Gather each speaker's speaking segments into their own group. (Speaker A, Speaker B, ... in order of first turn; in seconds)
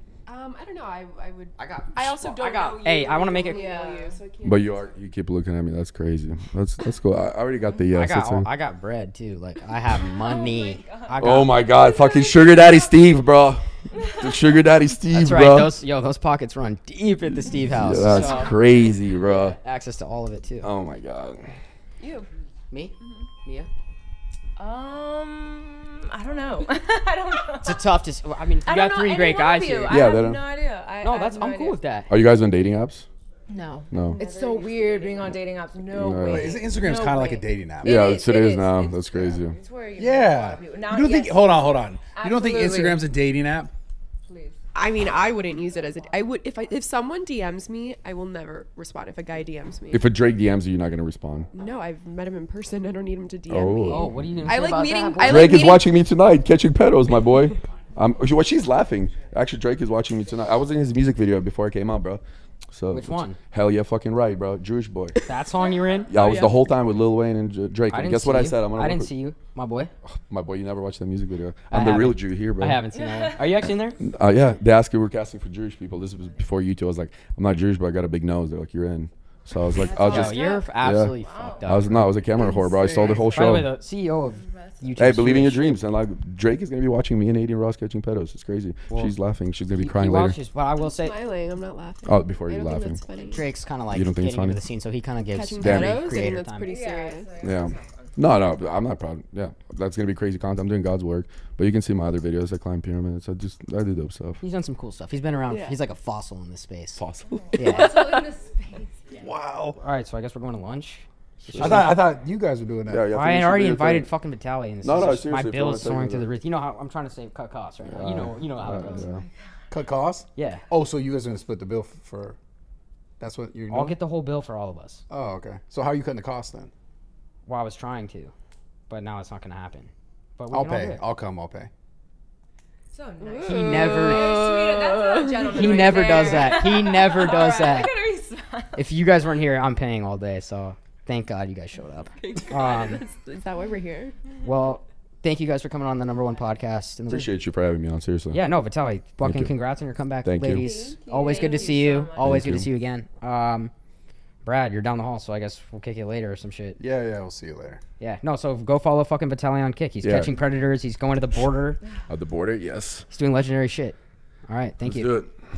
Speaker A: 0.3-4.9, 22.0-22.3, 23.0-23.3, 34.0-35.4, 44.7-50.1, 51.5-56.0, 66.1-66.6, 90.8-93.5, 95.3-97.5, 105.5-105.8, 107.6-108.3, 133.2-136.6, 142.2-144.2, 150.6-151.9
Speaker B: 1.6-3.7, 7.9-11.6, 15.1-20.7, 22.7-23.7, 27.6-30.0, 31.0-32.1, 53.9-55.7, 62.9-63.4, 65.3-66.1, 67.9-69.9, 71.7-74.0, 79.9-82.2, 83.3-85.8, 88.9-89.2, 89.7-91.2, 93.2-96.7, 104.4-107.0, 107.6-107.9, 109.8-112.0, 113.1-119.1, 120.4-120.7, 123.7-125.0, 127.5-128.3, 128.9-131.0, 133.4-134.4, 135.4-138.0, 138.8-143.0, 144.4-147.3, 148.3-153.7, 154.4-156.8, 158.0-161.8, 163.1-165.2
Speaker C: 3.4-4.2, 10.0-13.1, 13.9-14.8, 18.0-18.9, 24.6-27.9, 28.6-31.8, 33.5-43.1, 44.3-44.6, 45.8-46.1, 73.0-73.6, 76.1-76.4, 79.8-81.8, 84.1-85.0, 96.6-98.3, 107.4-109.3, 118.6-119.3, 132.9-138.9, 151.1-152.4
Speaker D: 4.4-8.5, 11.2-15.8, 17.6-19.6, 20.6-21.5, 29.9-30.5, 32.1-33.1, 33.9-34.2, 35.9-36.7, 37.8-39.6, 49.9-51.5, 53.5-54.5, 55.2-65.2, 66.1-69.1, 70.0-72.8, 74.0-83.8, 85.0-90.4, 92.1-93.0, 93.9-94.6, 95.6-96.1, 97.4-104.4, 107.0-108.0, 111.4-112.0, 112.9-114.1, 114.8-116.3, 117.9-119.2, 147.1-148.4, 149.2-149.5, 150.2-150.7, 152.2-152.7, 160.0-160.3, 162.1-163.1, 164.8-165.3
Speaker E: 36.3-38.0, 40.0-43.7, 82.4-83.4, 109.2-109.8, 111.6-113.1, 119.7-122.4, 123.2-124.0, 125.1-126.7, 130.5-131.7, 156.8-157.8